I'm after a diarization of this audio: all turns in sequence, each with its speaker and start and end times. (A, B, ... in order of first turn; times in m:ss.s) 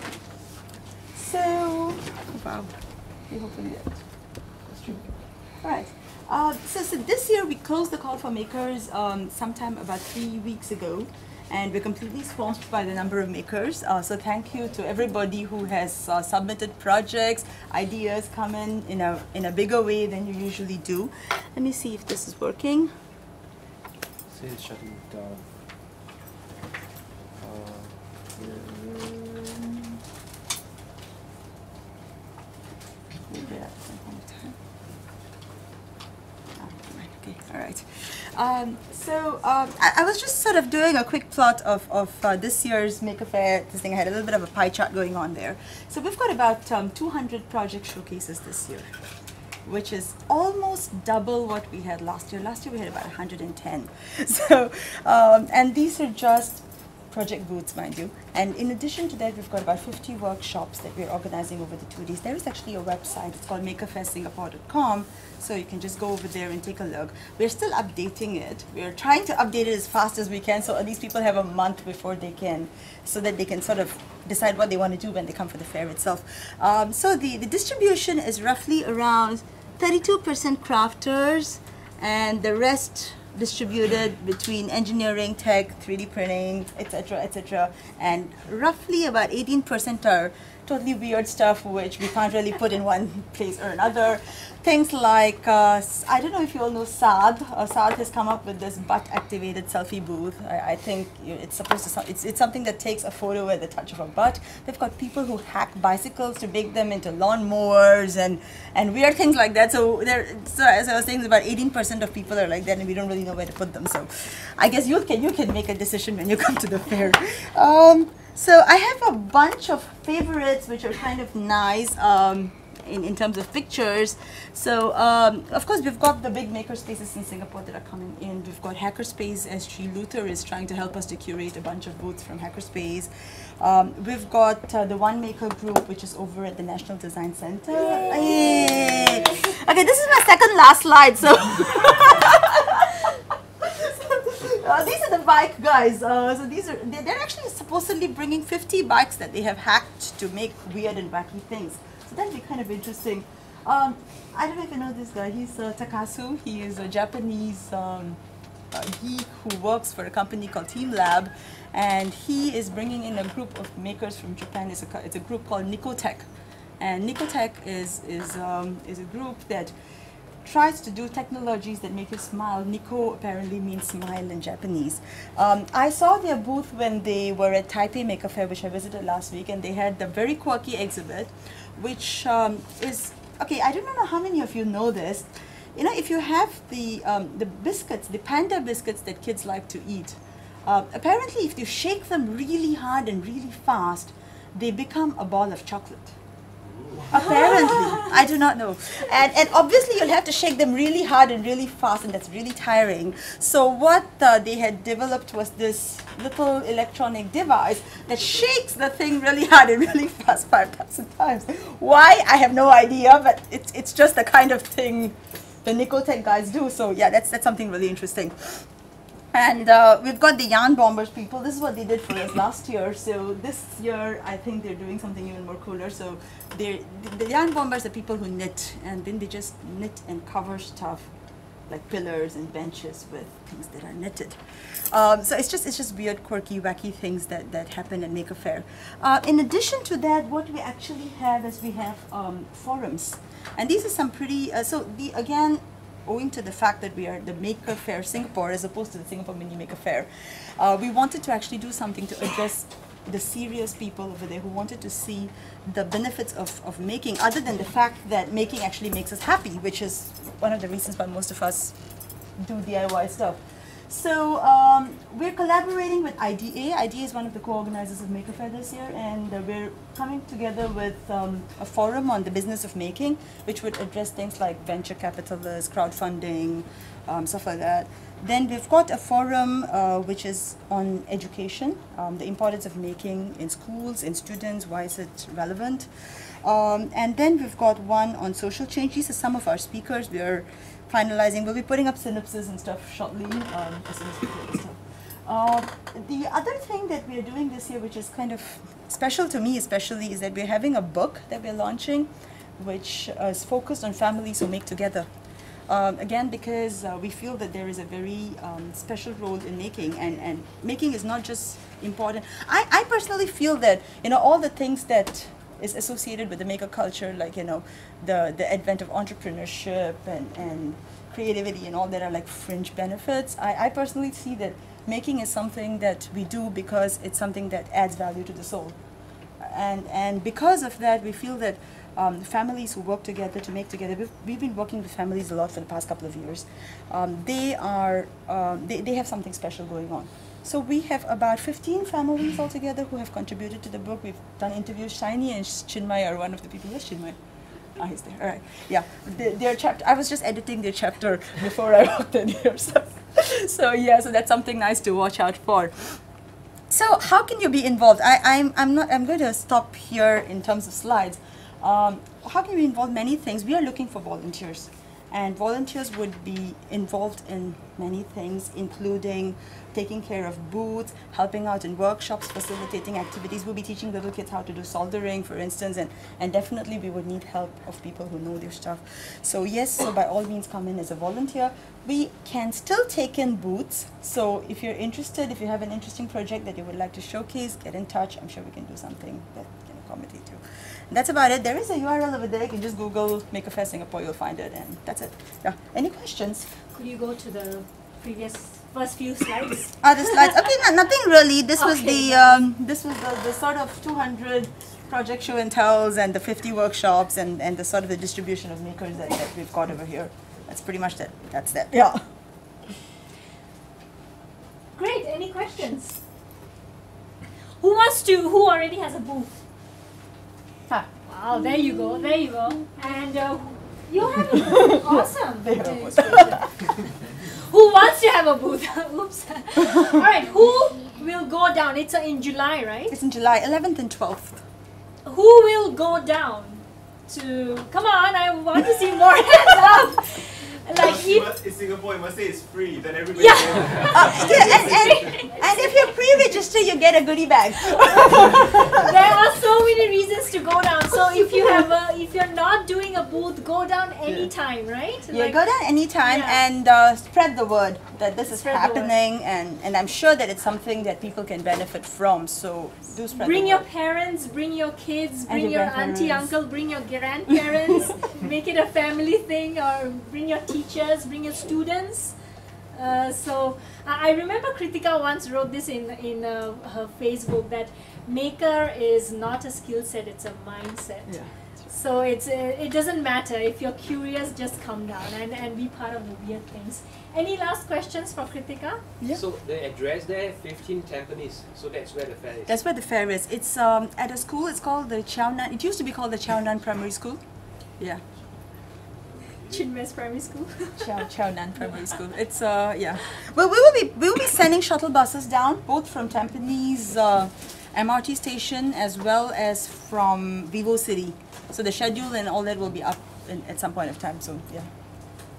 0:01.1-0:02.7 A
0:03.3-0:04.0 A
0:04.7-0:05.0 A
0:05.6-0:22.9 A
0:24.3-0:25.5 B
0:27.4-0:28.3 B
0:28.4-0:29.6 A
0:33.3-0:34.6 A
0:36.6-0:48.9 A
0:49.6-2:38.2 A
2:17.9-2:19.3 C
2:38.7-2:46.2 A
2:46.8-2:49.7 A
2:50.4-3:16.1 A
3:17.1-3:38.6 A
3:17.2-3:18.0 C
3:39.3-3:51.1 A
3:51.7-4:21.8 A
4:22.4-5:05.1 A
5:05.7-5:28.8 A
5:29.4-5:47.2 A
5:47.8-5:56.0 A
5:56.7-6:36.5 A
6:36.7-6:40.4 C
6:39.8-6:52.1 A
6:41.6-6:42.3 C
6:54.8-6:56.0 C
6:57.6-6:59.4 C
7:01.0-7:12.9 C
7:04.5-7:06.7 A
7:12.9-7:14.4 A
7:15.0-7:21.4 C
7:20.7-7:25.2 D
7:23.2-7:25.9 C
7:23.9-7:29.0 A
7:27.7-7:35.4 C
7:34.1-7:34.3 A
7:35.1-7:43.7 A
7:36.0-7:36.4 C
7:38.3-7:38.9 C
7:43.1-7:52.1 C
7:45.3-7:46.4 A
7:47.3-7:47.9 A
7:52.7-8:08.8 C
8:01.1-8:01.7 A
8:09.1-8:12.5 B
8:12.5-8:17.2 A
8:19.4-8:21.1 C
8:20.8-8:34.7 A